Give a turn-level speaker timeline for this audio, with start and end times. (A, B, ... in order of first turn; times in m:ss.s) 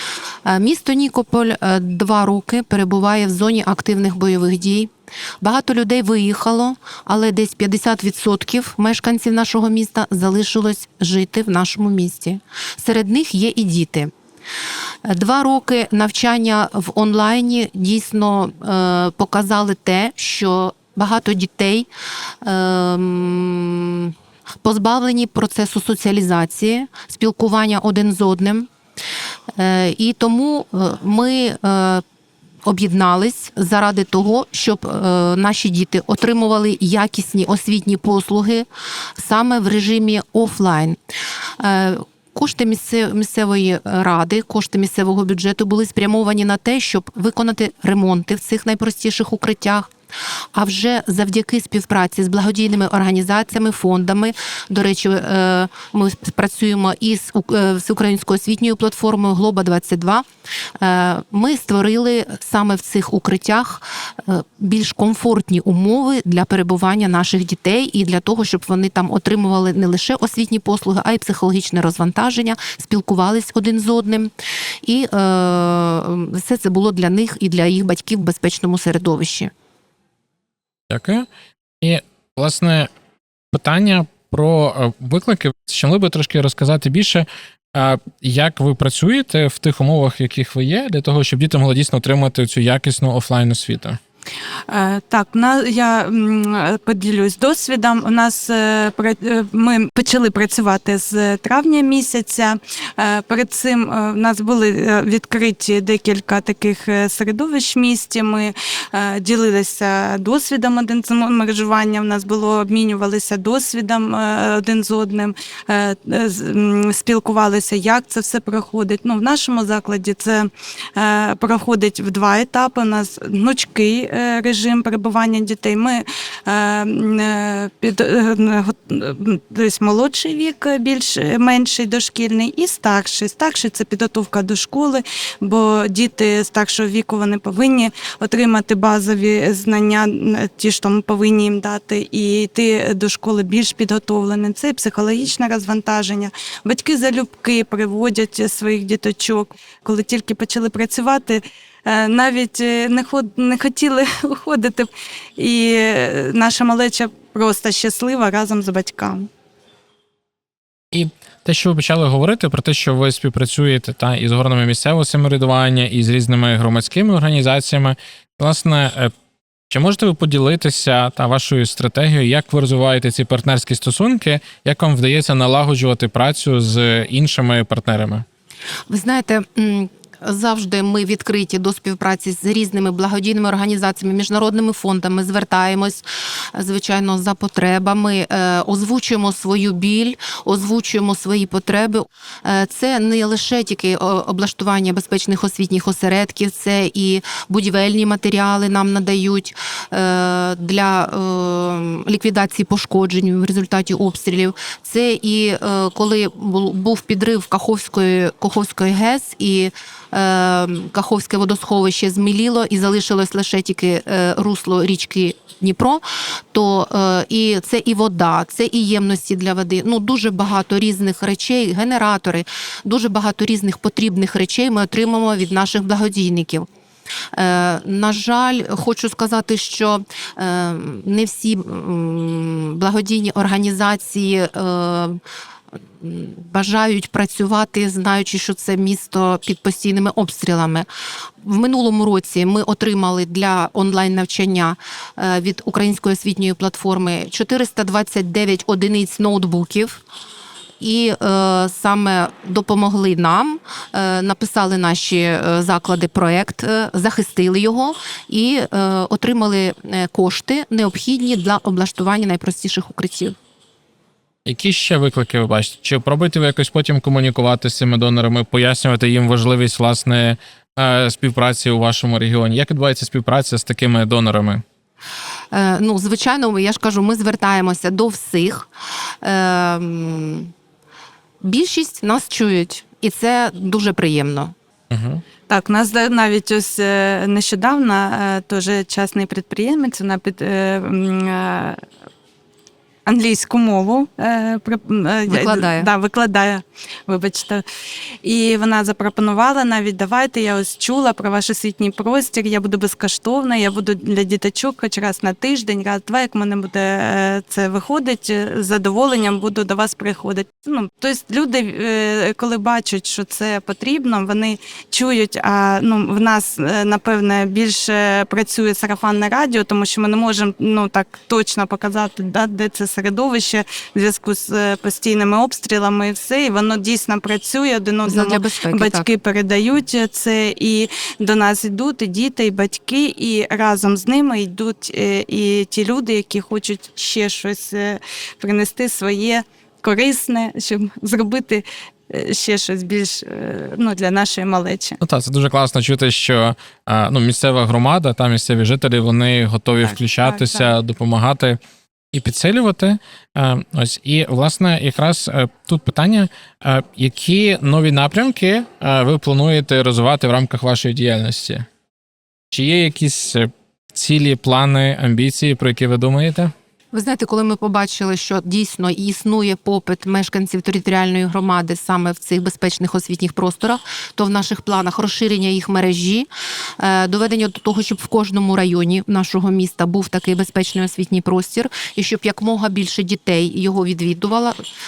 0:00.4-0:14.1 A
0:15.0-0:21.9 A
0:22.4-0:28.7 A
0:29.6-0:32.0 A
0:32.6-0:41.0 A
0:41.6-0:49.9 A
0:50.5-1:00.2 A
1:00.8-1:19.5 A
1:20.9-1:21.2 B
1:21.8-1:22.9 B
1:23.5-1:34.0 B
1:34.7-2:39.3 C
2:40.9-2:49.1 B
2:49.7-2:58.2 B
2:58.9-3:46.7 A
3:47.3-3:55.2 A
3:56.0-4:00.9 A
4:01.4-4:10.0 A
4:10.8-4:23.4 A
4:24.4-4:34.6 B
4:35.5-4:38.7 A
4:39.2-4:40.5 A
4:41.4-4:44.5 A
4:44.9-4:45.2 B
4:45.5-4:51.8 C
4:53.0-4:57.6 C
4:55.3-4:55.9 A
4:58.2-5:45.0 C
5:28.0-5:29.0 A
5:45.0-5:51.6 B
5:49.9-5:50.7 C
5:52.1-6:01.6 B
6:02.5-6:06.5 B
6:06.9-6:16.3 A
6:16.8-6:24.6 A